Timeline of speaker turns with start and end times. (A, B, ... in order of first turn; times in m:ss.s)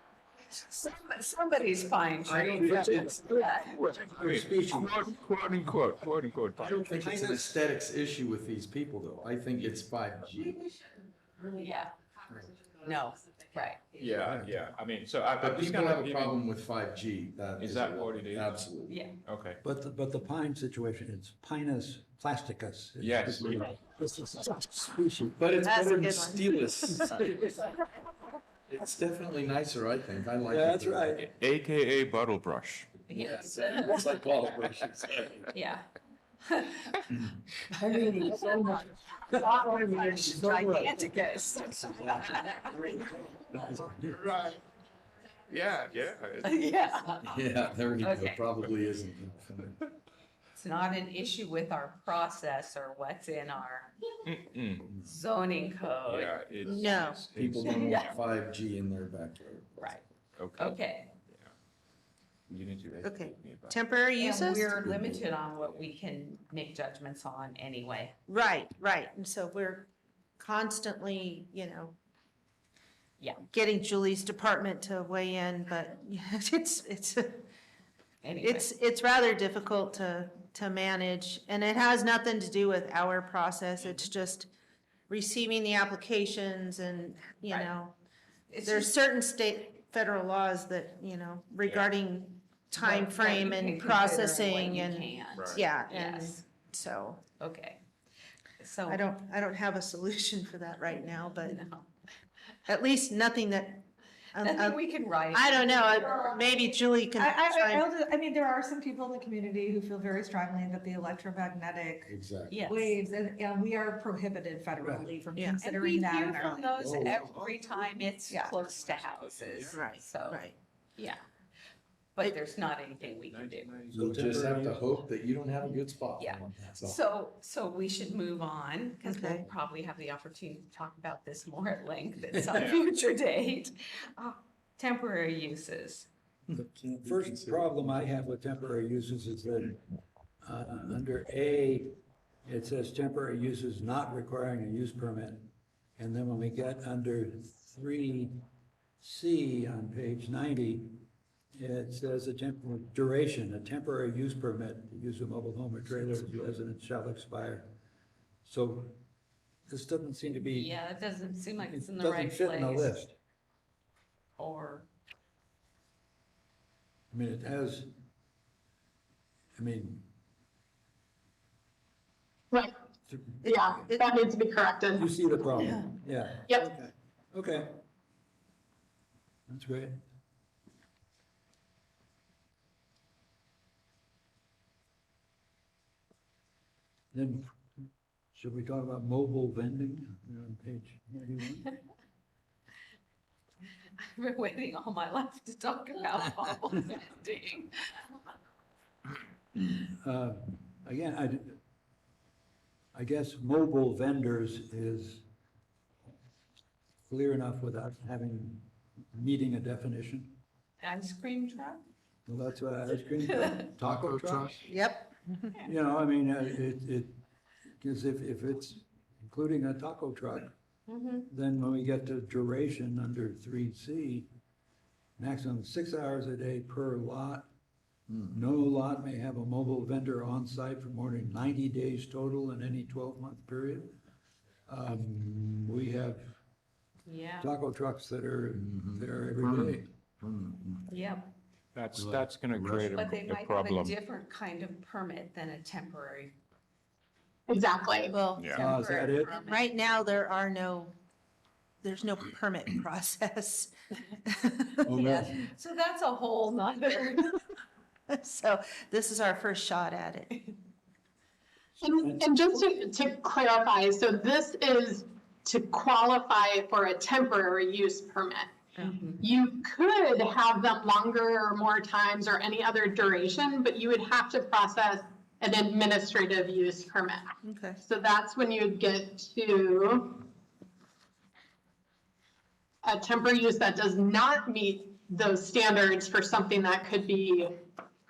0:00.5-0:03.8 A
0:02.2-0:03.2 B
0:02.6-0:03.0 C
0:03.0-0:06.9 D
0:04.0-0:05.0 C
0:06.6-0:10.6 B
0:07.0-0:07.6 C
0:11.5-0:11.9 A
0:12.8-0:13.8 A
0:14.0-0:16.4 D
0:14.2-0:14.6 C
0:15.4-0:19.0 B
0:17.6-0:18.7 D
0:18.9-0:19.2 A
0:19.2-0:19.6 D
0:19.6-0:25.4 C
0:23.0-0:23.8 D
0:25.3-0:27.5 B
0:25.6-0:27.1 E
0:28.7-0:31.2 B
0:30.5-0:31.3 C
0:31.2-0:32.9 D
0:33.1-0:34.0 A
0:33.1-0:35.5 B
0:35.5-0:35.8 A
0:36.4-0:37.1 A
0:37.8-0:38.8 F
0:37.8-0:38.6 A
0:39.3-0:43.6 A
0:39.4-0:40.7 F
0:39.9-0:40.8 B
0:43.9-0:44.6 D
0:45.5-0:46.6 D
0:46.4-0:47.4 A
0:47.2-0:49.7 B
0:48.0-0:48.4 A
0:50.5-0:53.9 A
0:54.2-0:54.9 D
0:55.0-0:56.4 A
0:56.0-0:58.2 D
0:56.6-0:57.2 E
0:57.3-0:59.8 B
0:57.7-0:58.1 A
0:59.8-1:00.0 A
1:00.4-1:00.8 D
1:00.6-1:01.1 A
1:02.5-1:03.8 D
1:03.0-1:04.8 E
1:04.2-1:08.1 A
1:04.8-1:05.2 B
1:08.3-1:12.0 E
1:13.5-1:17.4 E
1:18.2-1:18.7 A
1:18.4-1:24.5 E
1:25.1-1:28.0 E
1:28.5-1:28.9 A
1:28.6-1:37.2 E
1:32.8-1:36.4 A
1:35.3-1:35.6 D
1:37.4-1:37.8 A
1:38.6-1:39.1 A
1:38.9-1:41.6 E
1:41.3-1:41.9 A
1:42.7-1:47.8 E
1:44.4-1:46.4 A
1:47.1-1:56.9 F
1:52.1-1:52.7 B
1:52.5-1:53.0 A
1:55.4-1:55.6 E
1:55.6-2:00.4 A
1:56.8-1:57.3 B
1:58.3-1:58.6 F
1:59.7-2:00.6 E
2:01.0-2:01.2 A
2:02.2-2:03.8 A
2:03.3-2:04.0 D
2:03.9-2:04.8 C
2:03.9-2:07.0 B
2:06.2-2:16.1 A
2:09.0-2:09.4 E
2:16.5-2:17.6 B
2:16.5-2:19.8 C
2:20.4-2:28.4 C
2:29.0-2:31.0 C
2:31.5-2:37.7 C
2:38.4-2:39.0 C
2:39.7-2:40.8 C
2:40.5-2:43.0 A
2:41.6-2:43.2 C
2:44.4-2:44.9 A
2:47.1-2:47.9 C
2:49.6-2:50.0 C
2:53.4-2:54.1 E
2:53.4-2:55.1 G
2:55.0-2:57.8 C
2:59.5-3:00.0 C
3:07.1-3:11.7 C
3:14.0-3:18.0 A
3:19.6-3:21.6 C
3:22.9-3:25.2 C
3:27.1-3:30.4 C
3:30.8-3:31.8 A
3:32.3-3:34.5 C
3:33.4-3:33.6 A
3:33.8-3:34.6 B
3:34.6-3:35.5 E
3:35.6-3:37.2 C
3:37.8-3:40.5 C
3:40.9-3:41.3 A
3:41.3-3:44.3 C
3:45.2-3:47.5 C
3:48.3-3:54.0 C
3:54.7-3:56.4 C
3:57.1-3:57.5 A
3:57.4-3:59.9 C
3:58.5-4:00.8 B
4:00.9-4:01.3 A
4:01.7-4:03.9 D
4:01.9-4:03.0 B
4:02.9-4:06.4 A
4:07.5-4:08.1 G
4:08.1-4:08.6 E
4:08.3-4:08.6 D
4:08.4-4:10.0 A
4:08.6-4:09.3 C
4:09.4-4:10.9 E
4:11.8-4:13.7 E
4:14.2-4:15.0 E
4:14.8-4:17.4 A
4:14.9-4:15.2 C
4:18.1-4:20.5 E
4:21.8-4:28.6 G
4:21.9-4:22.2 C
4:28.8-4:29.2 A
4:29.2-4:37.3 G
4:37.4-4:37.8 E
4:37.9-4:40.2 G
4:42.8-4:47.5 G